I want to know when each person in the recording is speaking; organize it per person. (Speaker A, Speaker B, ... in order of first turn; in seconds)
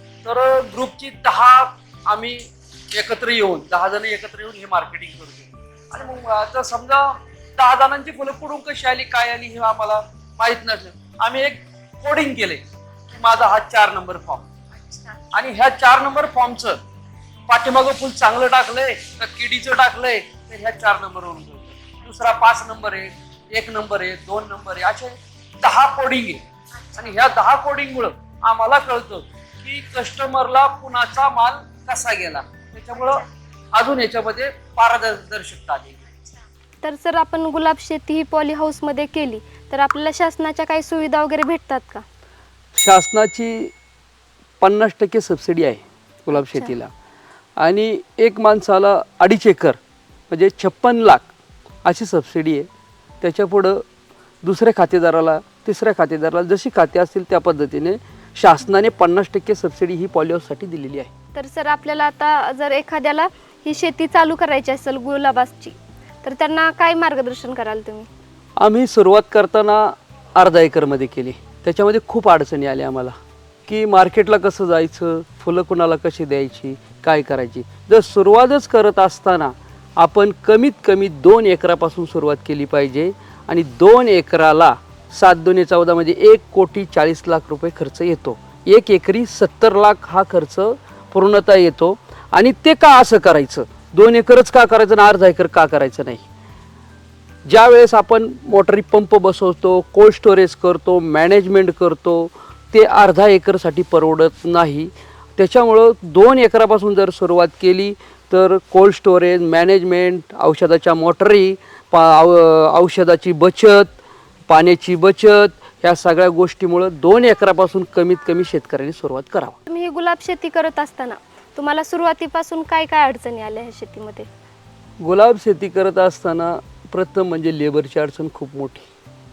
Speaker A: 0.2-14.5, 15.3-16.8, 17.5-36.2, 42.7-43.7, 44.6-46.9, 47.6-49.8, 50.3-51.3, 51.9-52.7, 53.2-53.9, 54.4-61.1, 68.6-73.2, 73.7-96.2, 97.5-113.9, 114.5-119.6, 125.0-128.9
Speaker B: 14.9-15.2, 36.8-42.0, 46.3-46.7, 61.4-68.1, 119.7-124.3